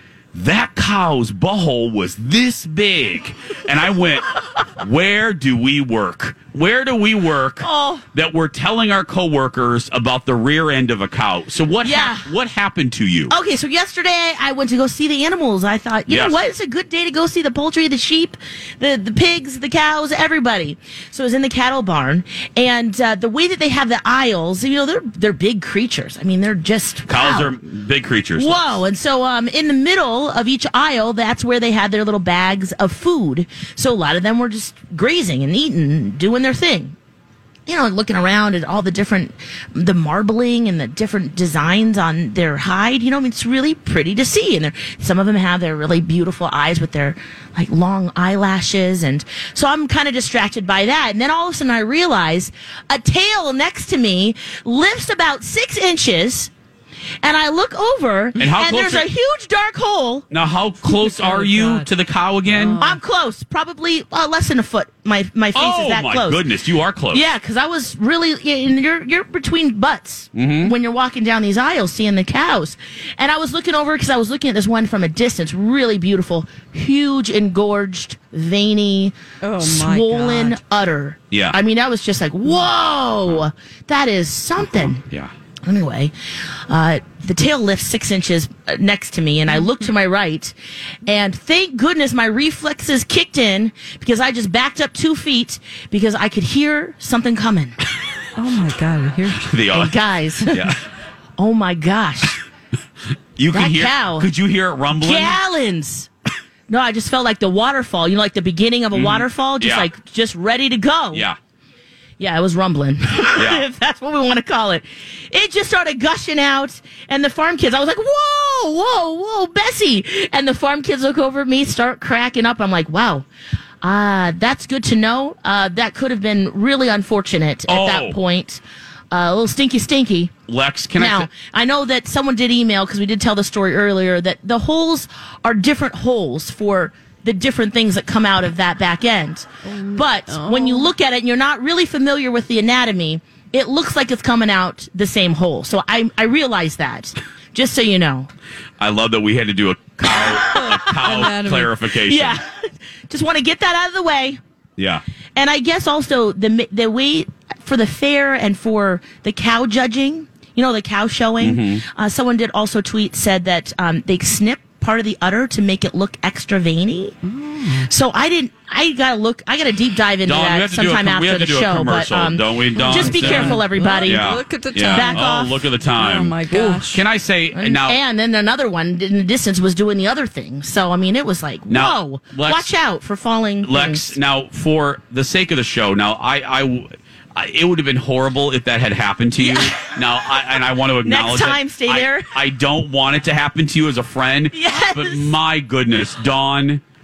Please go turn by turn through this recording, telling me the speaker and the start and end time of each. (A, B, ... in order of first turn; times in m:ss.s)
0:00.3-0:13.3 A
0:07.6-0:08.0 B
0:11.8-0:12.3 B
0:13.3-0:27.6 B
0:16.1-0:16.4 A
0:27.1-0:28.8 A
0:28.4-0:37.0 B
0:37.7-0:56.5 B
0:57.2-1:00.3 B
0:58.4-0:59.1 A
1:00.3-1:02.8 A
1:00.9-1:01.9 C
1:02.5-1:03.0 C
1:02.8-1:06.5 B
1:05.6-1:07.3 A
1:07.1-1:25.0 B
1:10.4-1:10.7 A
1:19.4-1:20.6 C
1:21.3-1:21.6 A
1:24.6-1:25.3 A
1:25.6-1:26.1 B
1:26.7-1:30.5 B
1:31.1-1:37.8 B
1:38.4-1:39.5 C
1:39.4-1:39.9 A
1:39.7-1:40.7 B
1:40.5-1:40.8 A
1:41.4-1:42.4 B
1:43.4-1:45.4 A
1:43.5-1:44.3 B
1:45.0-1:46.1 B
1:46.7-1:51.3 B
1:48.9-1:49.9 A
1:52.2-2:03.3 B
1:53.4-1:53.6 A
2:03.8-2:08.6 B
2:07.7-2:08.2 A
2:09.1-2:10.3 B
2:10.5-2:11.3 A
2:11.0-2:28.3 B
2:19.6-2:20.9 C
2:28.8-2:32.4 A
2:30.1-2:31.2 B
2:30.6-2:31.7 C
2:32.0-2:34.4 B
2:34.8-2:35.0 A
2:35.4-2:47.2 B
2:41.4-2:41.8 A
2:47.2-2:47.9 C
2:47.9-2:55.6 B
2:50.2-2:58.0 A
2:52.8-2:55.2 C
2:56.0-2:57.0 C
2:57.5-3:04.2 B
3:01.7-3:02.7 A
3:03.6-3:16.8 A
3:09.4-3:09.8 B
3:11.0-3:12.4 B
3:14.5-3:15.4 B